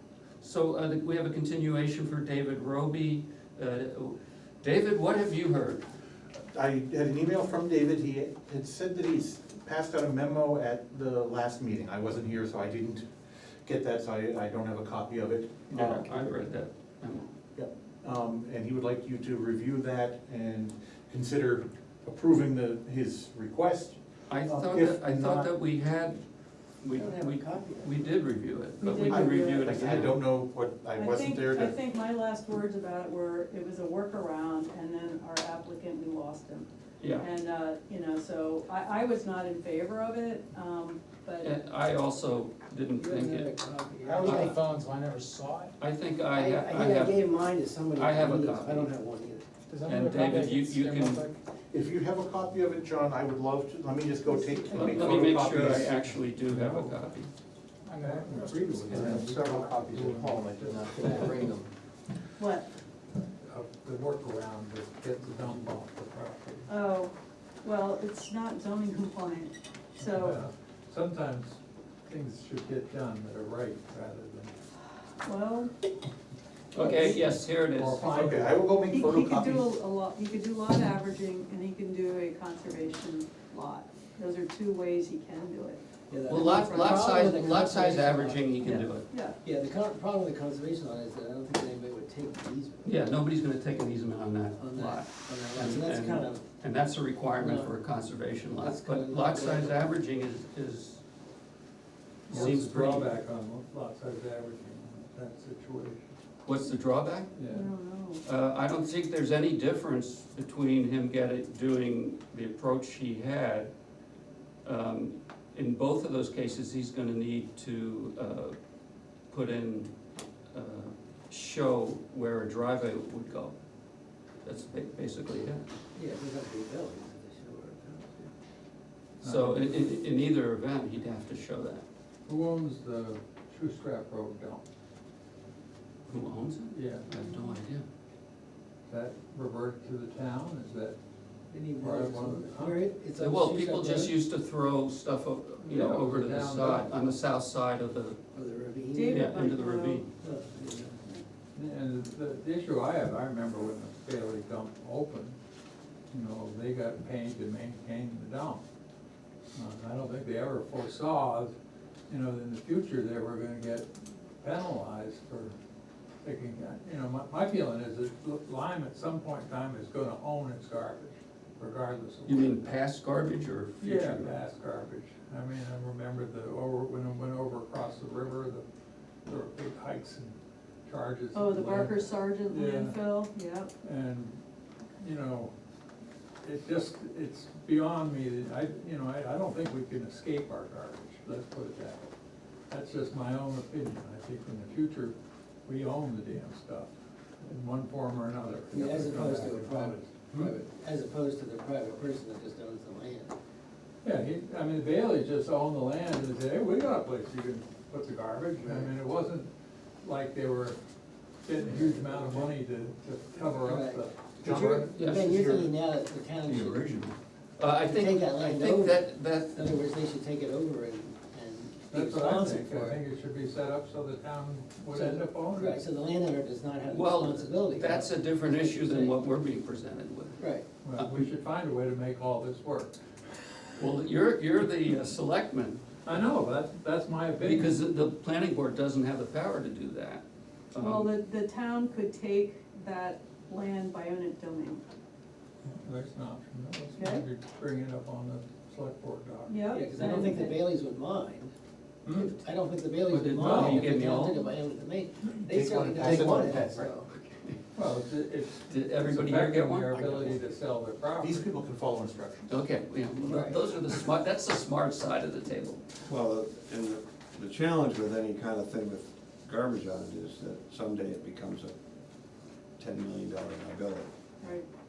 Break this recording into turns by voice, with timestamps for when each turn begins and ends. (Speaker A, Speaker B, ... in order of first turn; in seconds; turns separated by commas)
Speaker A: 0.4-5.8, Speaker B: 6.5-13.1, Speaker B: 13.6-16.5, Speaker A: 15.7-17.3, Speaker B: 17.6-25.5, Speaker A: 24.3-26.2, Speaker A: 26.8-30.2, Speaker C: 26.9-28.1, Speaker D: 28.8-29.8, Speaker B: 29.0-31.8, Speaker D: 30.9-41.6, Speaker A: 37.0-37.3, Speaker A: 41.4-43.5, Speaker C: 43.0-44.6, Speaker B: 44.1-45.7, Speaker A: 44.2-44.6, Speaker E: 44.2-44.7, Speaker A: 45.8-47.3, Speaker C: 46.3-49.6, Speaker A: 47.9-48.9, Speaker E: 49.7-51.3, Speaker A: 49.9-51.2, Speaker B: 51.7-56.0, Speaker C: 54.2-55.0, Speaker A: 54.7-57.3, Speaker F: 56.4-57.0, Speaker F: 57.9-61.3, Speaker E: 58.0-61.5, Speaker B: 58.9-61.5, Speaker C: 58.9-59.9, Speaker D: 62.4-62.7, Speaker F: 63.1-66.7, Speaker D: 66.7-70.4, Speaker F: 70.0-74.5, Speaker D: 75.2-75.7, Speaker A: 76.7-78.1, Speaker F: 76.8-78.7, Speaker D: 76.9-77.2, Speaker B: 78.0-79.7, Speaker D: 78.9-85.8, Speaker C: 86.1-93.0, Speaker A: 86.3-89.1, Speaker D: 86.6-86.9, Speaker D: 88.6-89.4, Speaker A: 92.8-101.0, Speaker C: 94.5-96.5, Speaker C: 97.4-97.8, Speaker C: 98.6-99.9, Speaker A: 102.3-103.1, Speaker F: 102.3-106.1, Speaker A: 106.5-107.3, Speaker F: 107.3-107.7, Speaker D: 107.4-108.2, Speaker A: 108.2-113.7, Speaker A: 114.7-118.6, Speaker A: 119.3-119.9, Speaker A: 120.5-123.5, Speaker A: 124.5-125.7, Speaker C: 125.9-128.3, Speaker A: 129.2-131.8, Speaker F: 129.2-129.9, Speaker F: 132.3-134.6, Speaker A: 136.1-137.8, Speaker F: 136.7-137.1, Speaker D: 137.2-137.6, Speaker F: 138.9-141.0, Speaker C: 141.5-144.2, Speaker F: 141.7-142.8, Speaker A: 143.2-148.2, Speaker F: 145.6-147.0, Speaker C: 148.3-149.4, Speaker D: 148.9-150.1, Speaker A: 149.1-150.1, Speaker C: 150.2-151.0, Speaker F: 151.5-155.4, Speaker F: 156.1-158.6, Speaker F: 159.5-161.5, Speaker F: 162.1-165.6, Speaker F: 166.2-172.8, Speaker A: 172.3-174.4, Speaker F: 173.8-178.7, Speaker F: 179.3-183.0, Speaker D: 181.3-183.7, Speaker F: 183.8-184.4, Speaker F: 185.0-185.5, Speaker F: 186.4-192.1, Speaker F: 192.7-200.5, Speaker C: 198.7-203.3, Speaker F: 204.0-209.5, Speaker C: 208.6-208.9, Speaker F: 210.0-210.8, Speaker F: 211.4-214.9, Speaker C: 211.6-212.5, Speaker C: 213.6-216.9, Speaker B: 214.4-215.6, Speaker A: 214.9-215.5, Speaker A: 217.6-219.6, Speaker C: 217.8-223.0, Speaker F: 221.9-225.8, Speaker C: 224.9-229.2, Speaker A: 226.9-231.3, Speaker C: 230.4-230.7, Speaker F: 230.8-233.0, Speaker A: 233.8-235.8, Speaker F: 236.1-237.8, Speaker A: 237.4-241.1, Speaker D: 240.8-244.8, Speaker F: 245.7-249.6, Speaker D: 247.0-247.2, Speaker D: 249.5-250.6, Speaker C: 249.7-251.5, Speaker F: 252.1-252.3, Speaker C: 252.1-257.1, Speaker A: 253.1-254.5, Speaker F: 253.4-253.8, Speaker B: 255.5-256.9, Speaker A: 257.1-257.6, Speaker F: 257.7-261.5, Speaker A: 258.7-260.0, Speaker C: 259.9-260.6, Speaker B: 261.2-262.6, Speaker A: 262.5-265.8, Speaker C: 263.2-263.7, Speaker G: 266.1-271.8, Speaker G: 272.8-274.1, Speaker D: 274.4-274.7